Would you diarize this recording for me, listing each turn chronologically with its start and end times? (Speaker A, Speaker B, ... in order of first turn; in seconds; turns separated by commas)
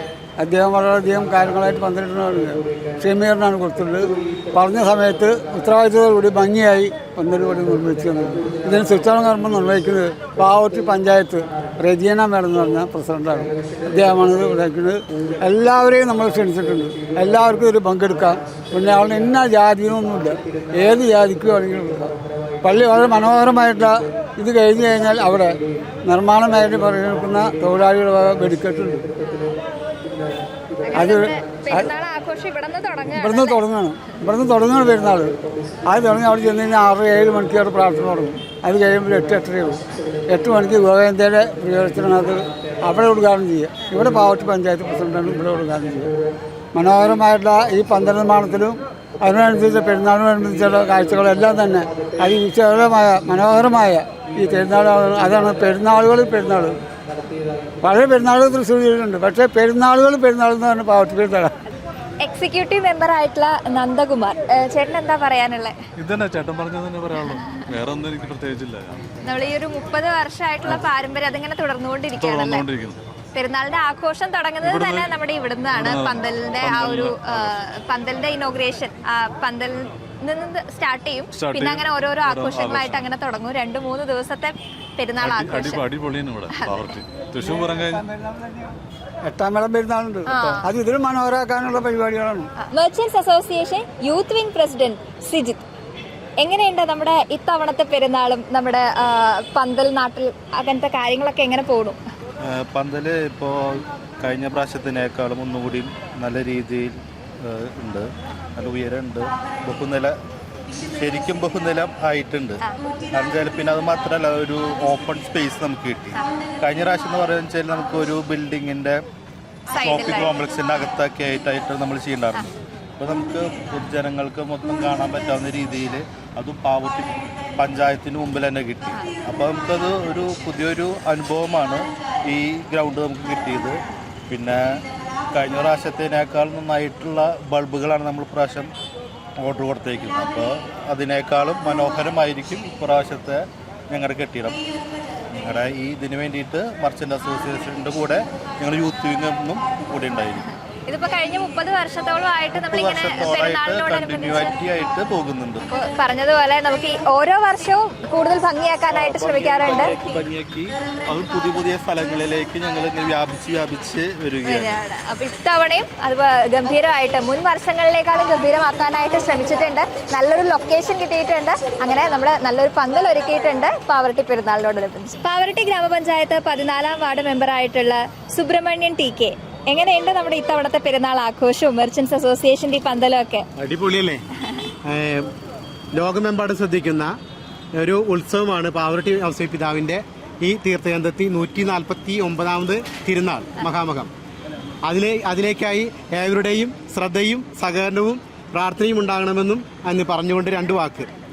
Speaker A: 0.4-29.1, Speaker B: 30.8-33.6, Speaker A: 30.9-31.9, Speaker A: 33.1-35.3, Speaker A: 35.9-46.1, Speaker A: 46.7-56.8, Speaker A: 57.8-61.5, Speaker B: 62.2-65.8, Speaker C: 66.0-69.0, Speaker B: 69.2-72.7, Speaker C: 72.1-73.0, Speaker B: 73.3-85.8, Speaker C: 74.6-75.1, Speaker C: 75.7-77.5, Speaker C: 81.3-83.1, Speaker C: 85.2-88.0, Speaker B: 86.5-86.9, Speaker A: 87.9-88.7, Speaker A: 89.2-92.5, Speaker B: 90.3-90.7, Speaker B: 92.7-95.6, Speaker B: 96.4-102.0, Speaker D: 102.4-103.5, Speaker D: 104.2-110.1, Speaker D: 111.0-112.6, Speaker D: 113.1-119.0, Speaker B: 119.7-120.4, Speaker D: 119.8-134.6, Speaker D: 135.3-138.7, Speaker D: 139.4-144.6, Speaker D: 145.3-150.4, Speaker B: 150.9-154.5, Speaker D: 152.6-155.6, Speaker B: 155.7-159.9, Speaker D: 158.9-164.7, Speaker B: 164.4-183.4, Speaker E: 183.6-184.2, Speaker E: 184.9-185.3, Speaker E: 185.9-187.1, Speaker E: 187.8-194.1, Speaker E: 194.8-201.1